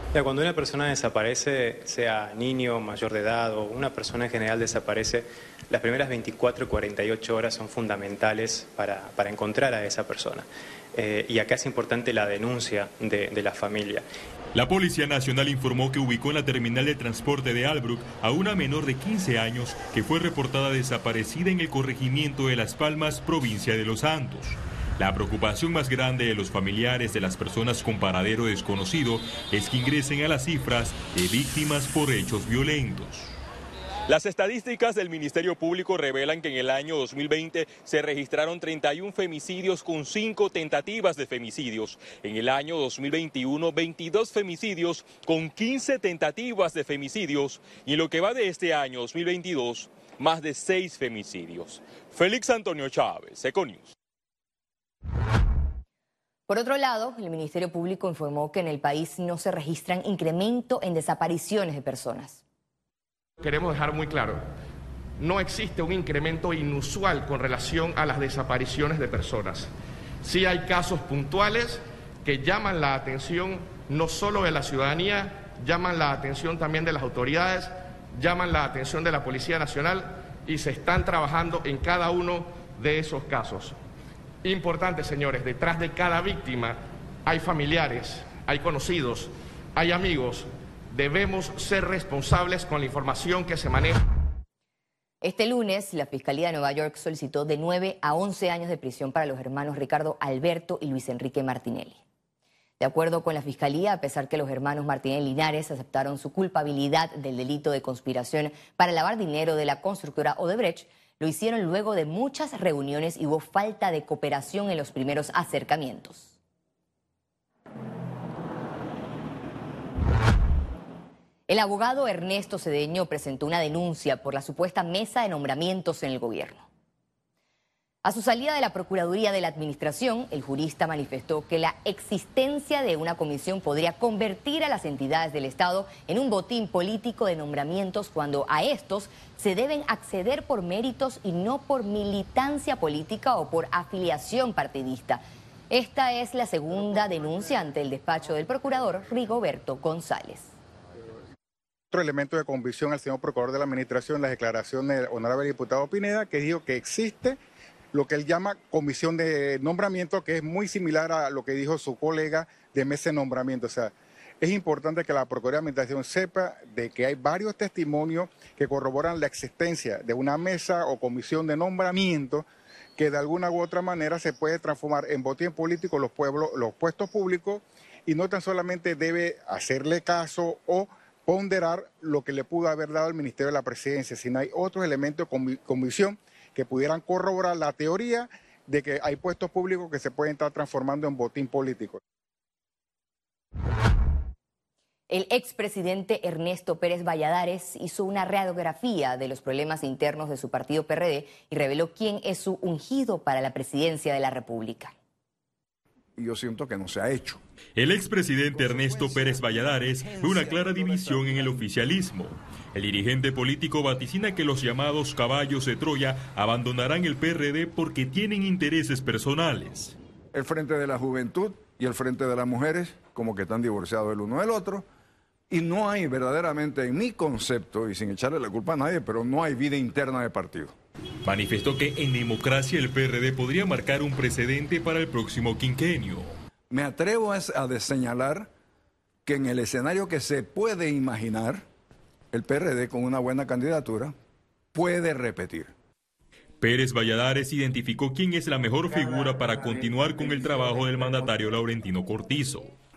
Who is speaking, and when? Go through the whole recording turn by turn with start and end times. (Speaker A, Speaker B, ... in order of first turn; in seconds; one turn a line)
Speaker A: 0.1-14.1
Speaker B: 14.5-33.3
Speaker B: 34.1-53.9
Speaker C: 56.5-62.4
Speaker D: 63.4-64.4
Speaker D: 65.2-69.7
Speaker D: 70.2-83.8
Speaker D: 84.4-94.0
Speaker C: 95.2-102.0
Speaker C: 102.8-116.3
Speaker C: 121.5-126.7
Speaker C: 128.0-150.5
Speaker E: 151.9-157.4
Speaker E: 157.9-172.4
Speaker E: 173.0-192.0
Speaker C: 195.1-204.9
Speaker F: 206.2-207.4
Speaker B: 207.8-219.9
Speaker F: 208.5-211.5
Speaker F: 220.3-224.8
Speaker F: 225.5-230.7
Speaker B: 231.2-236.3
Speaker F: 236.7-238.5
Speaker F: 239.2-241.6
Speaker F: 242.3-244.1
Speaker F: 244.7-245.7
Speaker B: 246.6-252.7